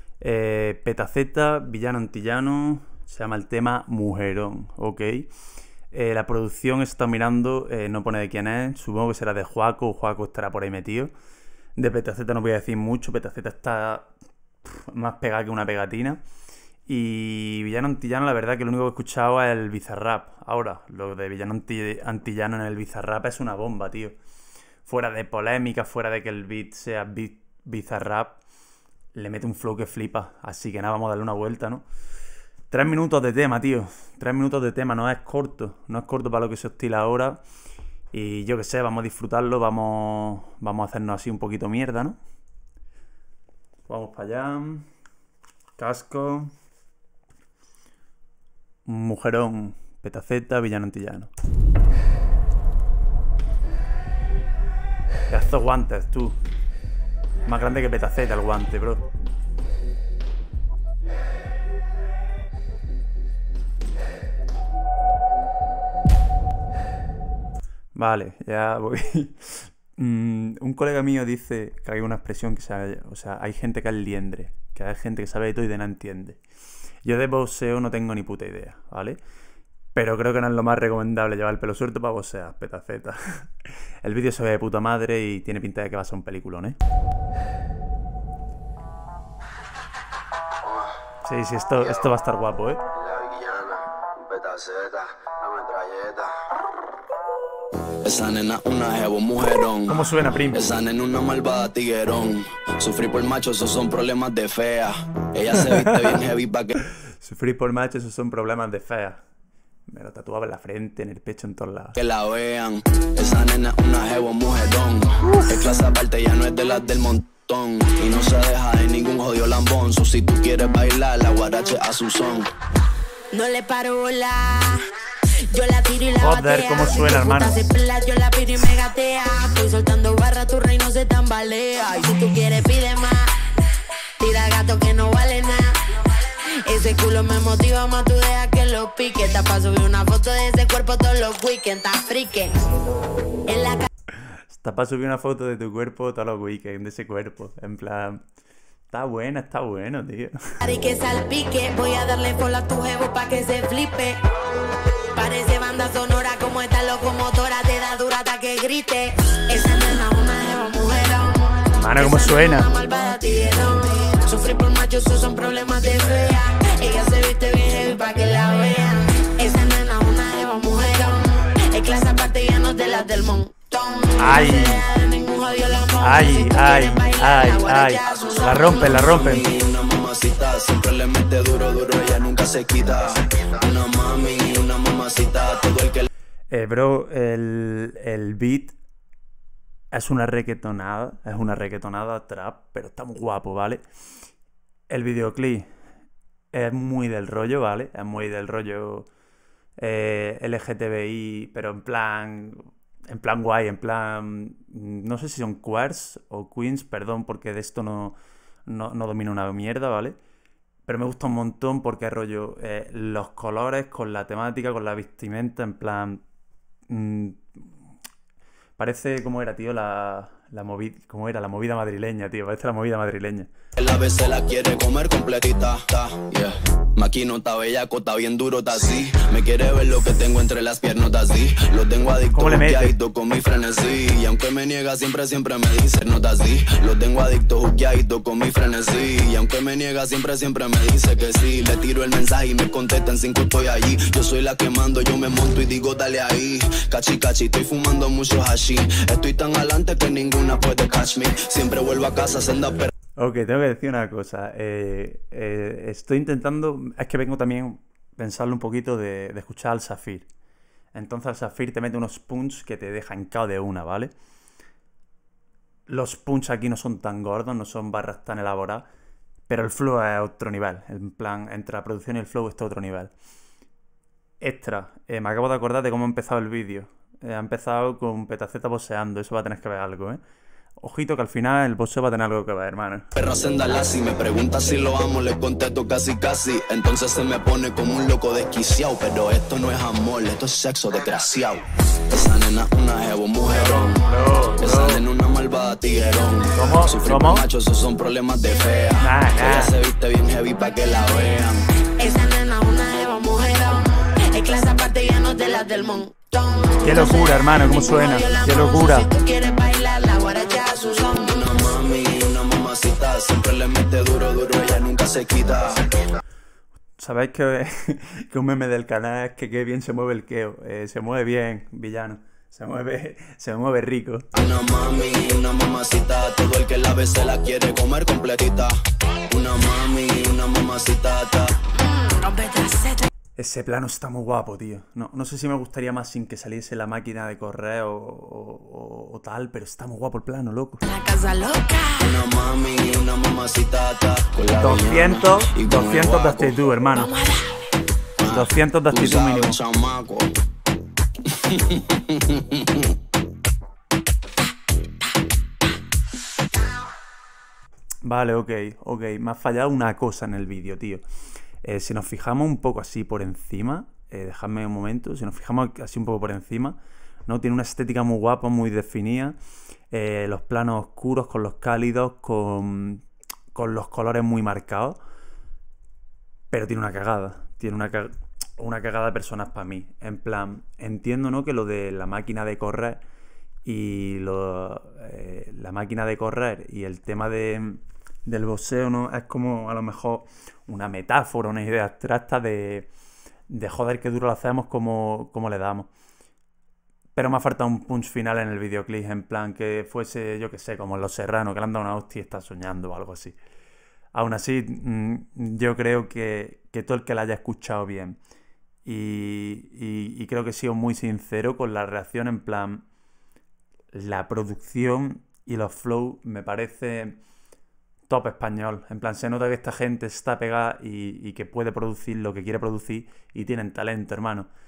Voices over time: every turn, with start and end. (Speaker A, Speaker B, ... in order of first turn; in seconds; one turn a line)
Speaker A: 0.2-5.3
Speaker A: 5.9-11.1
Speaker A: 11.8-14.1
Speaker A: 14.6-16.2
Speaker A: 16.9-24.2
Speaker A: 24.9-28.4
Speaker A: 29.1-31.9
Speaker A: 32.7-37.4
Speaker A: 38.1-42.2
Speaker A: 43.9-44.9
Speaker A: 45.8-46.5
Speaker A: 48.9-51.3
Speaker A: 55.3-56.4
Speaker A: 57.5-59.1
Speaker A: 68.0-76.4
Speaker A: 77.0-79.2
Speaker A: 79.9-86.8
Speaker A: 91.2-92.8
Speaker B: 93.0-96.3
Speaker B: 98.0-106.8
Speaker A: 99.9-100.6
Speaker A: 107.0-109.2
Speaker A: 109.9-112.0
Speaker B: 112.0-122.5
Speaker C: 123.3-133.5
Speaker A: 126.2-127.6
Speaker C: 134.2-142.7
Speaker C: 143.5-143.9
Speaker A: 144.5-148.2
Speaker A: 148.9-150.6
Speaker C: 150.6-154.2
Speaker C: 155.1-178.9
Speaker A: 161.7-162.7
Speaker A: 174.2-174.8
Speaker A: 176.0-179.5
Speaker B: 178.1-186.1
Speaker A: 186.5-188.8
Speaker A: 189.9-193.8
Speaker A: 194.9-195.7
Speaker A: 196.5-199.1
Speaker A: 199.8-210.2
Speaker A: 210.9-216.2
Speaker A: 216.9-217.7
Speaker A: 218.8-223.5
Speaker B: 223.8-252.9
Speaker A: 232.3-232.9
Speaker A: 253.2-260.3
Speaker A: 260.9-264.1
Speaker A: 265.9-268.9
Speaker A: 269.5-273.1
Speaker A: 274.4-280.2
Speaker A: 280.8-283.1
Speaker B: 283.2-294.0
Speaker A: 293.5-295.0
Speaker B: 294.6-301.7
Speaker A: 296.5-297.5
Speaker A: 299.0-299.8
Speaker C: 302.0-311.4
Speaker A: 306.8-309.1
Speaker B: 311.2-315.9
Speaker A: 317.0-324.3
Speaker B: 324.4-331.6
Speaker C: 331.8-333.1
Speaker A: 333.4-340.9
Speaker C: 340.8-342.2
Speaker B: 342.0-346.6
Speaker A: 344.6-347.1
Speaker C: 346.9-347.6
Speaker B: 348.2-350.3
Speaker A: 348.3-349.6
Speaker B: 351.2-352.9
Speaker A: 358.0-361.0
Speaker A: 361.6-369.4
Speaker A: 369.9-375.0
Speaker A: 376.5-383.0
Speaker A: 383.6-392.9
Speaker A: 393.5-395.9
Speaker A: 397.1-403.4
Speaker A: 404.1-408.2
Speaker A: 408.9-412.9
Speaker A: 413.9-417.2
Speaker A: 418.1-424.5